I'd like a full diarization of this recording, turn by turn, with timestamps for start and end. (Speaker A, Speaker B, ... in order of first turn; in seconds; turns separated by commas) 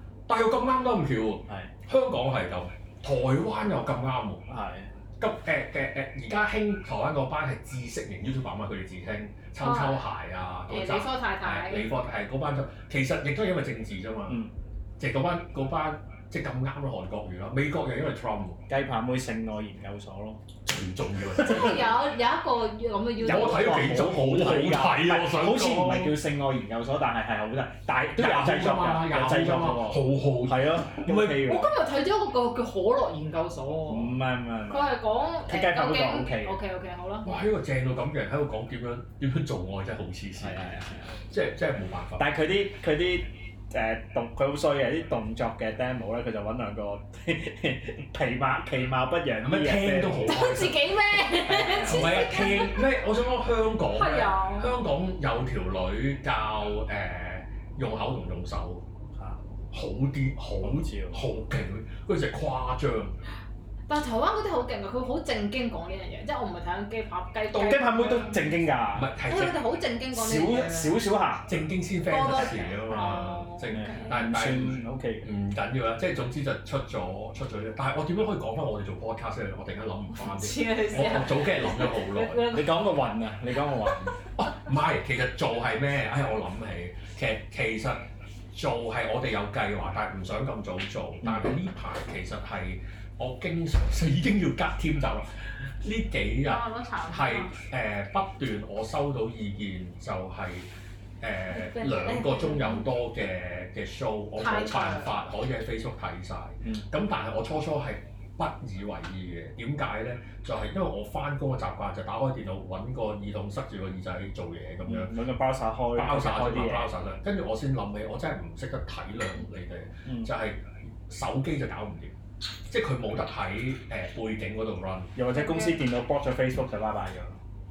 Speaker A: 0.3-4.4, Speaker B: 4.5-4.9, Speaker A: 5.2-14.4, Speaker C: 9.6-10.0, Speaker C: 10.7-11.9, Speaker A: 15.0-18.6, Speaker B: 18.7-20.4, Speaker A: 20.6-22.0, Speaker C: 21.4-23.9, Speaker B: 23.2-31.7, Speaker A: 23.2-26.2, Speaker A: 28.2-31.5, Speaker C: 31.4-34.2, Speaker B: 33.9-34.9, Speaker C: 34.7-37.3, Speaker B: 35.5-36.6, Speaker A: 37.2-42.3, Speaker B: 40.4-41.2, Speaker B: 42.2-50.5, Speaker A: 49.4-50.9, Speaker C: 50.3-52.8, Speaker B: 51.3-52.3, Speaker A: 51.8-58.8, Speaker C: 53.9-54.7, Speaker B: 59.1-59.4, Speaker A: 59.7-63.2, Speaker B: 60.6-61.2, Speaker C: 63.9-68.6, Speaker B: 67.5-69.1, Speaker A: 68.9-69.6, Speaker C: 69.2-71.0, Speaker B: 70.1-71.5, Speaker A: 71.5-82.6, Speaker C: 72.1-74.2, Speaker B: 73.7-75.3, Speaker C: 80.2-82.8, Speaker B: 82.5-84.2, Speaker A: 84.4-100.7, Speaker B: 91.2-91.5, Speaker C: 96.5-97.5, Speaker A: 101.2-115.2, Speaker C: 101.5-102.9, Speaker C: 104.4-105.1, Speaker B: 114.9-116.9, Speaker A: 115.9-122.2, Speaker B: 120.1-120.3, Speaker A: 122.7-125.1, Speaker B: 125.2-127.4, Speaker C: 125.3-125.8